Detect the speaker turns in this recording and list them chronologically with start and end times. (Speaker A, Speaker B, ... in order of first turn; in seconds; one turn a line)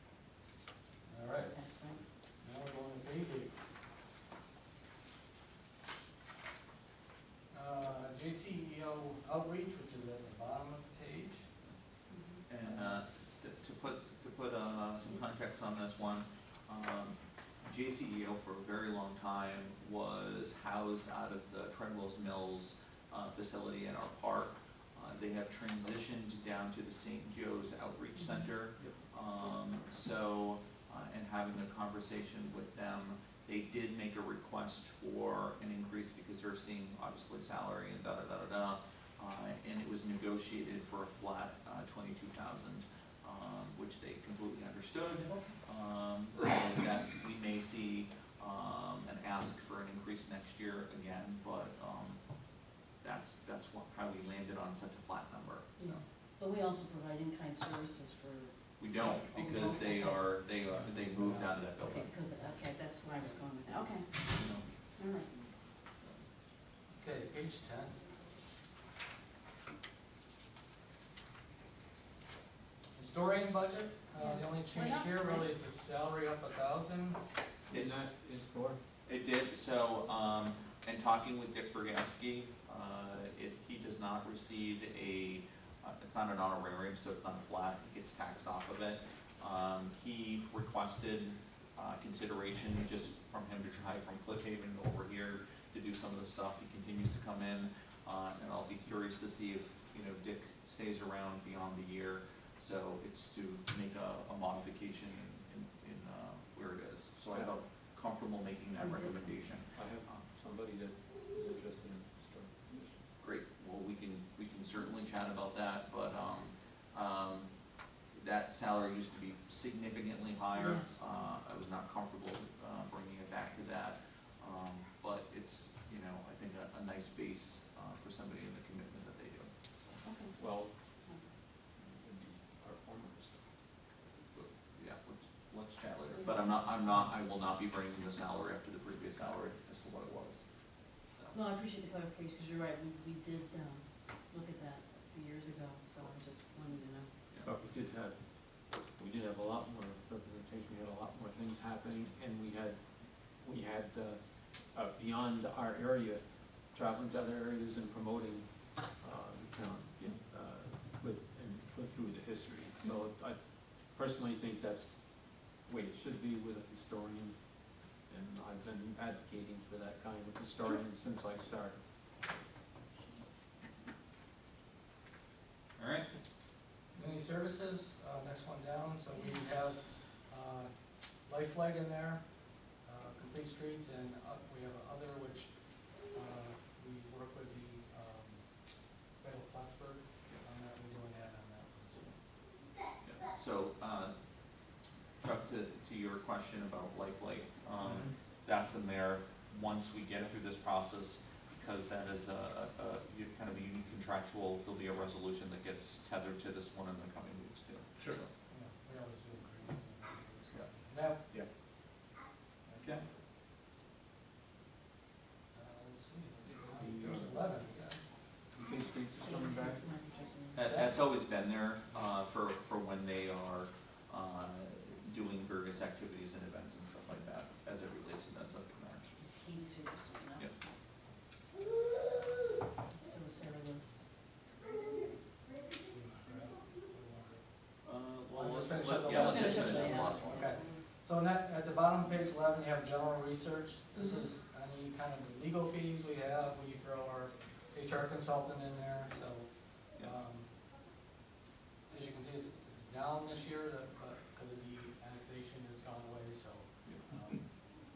Speaker A: 1.1-3.6
Speaker B: 1.4-2.1
Speaker A: 7.5-11.5
Speaker B: 12.1-12.4
Speaker C: 12.5-56.0
Speaker A: 12.6-12.9
Speaker B: 28.2-28.5
Speaker D: 28.8-29.0
Speaker B: 55.8-60.2
Speaker C: 58.8-62.1
Speaker A: 60.8-61.5
Speaker B: 61.8-64.4
Speaker C: 64.2-64.7
Speaker B: 65.0-65.5
Speaker C: 66.0-66.2
Speaker A: 66.9-68.0
Speaker A: 73.0-77.2
Speaker B: 74.2-75.5
Speaker D: 77.7-78.8
Speaker C: 79.0-110.3
Speaker B: 108.8-109.4
Speaker D: 109.7-113.1
Speaker C: 113.2-130.0
Speaker B: 120.5-121.3
Speaker B: 130.0-131.3
Speaker D: 130.3-131.0
Speaker D: 131.8-133.6
Speaker C: 134.1-141.4
Speaker B: 136.1-136.4
Speaker B: 141.3-147.1
Speaker D: 147.4-172.1
Speaker C: 175.8-176.1
Speaker A: 176.9-192.2
Speaker B: 179.2-179.4
Speaker C: 192.9-208.3
Speaker A: 208.5-211.2
Speaker A: 212.7-212.9
Speaker A: 215.5-218.0
Speaker D: 216.8-217.7
Speaker D: 218.5-219.8
Speaker B: 218.7-220.6
Speaker C: 220.6-229.2
Speaker A: 220.6-220.9
Speaker B: 229.2-230.7
Speaker B: 233.0-233.9
Speaker A: 235.9-237.4
Speaker C: 237.8-240.6
Speaker A: 238.3-250.5
Speaker B: 239.1-240.8
Speaker B: 243.9-244.2
Speaker A: 251.9-257.5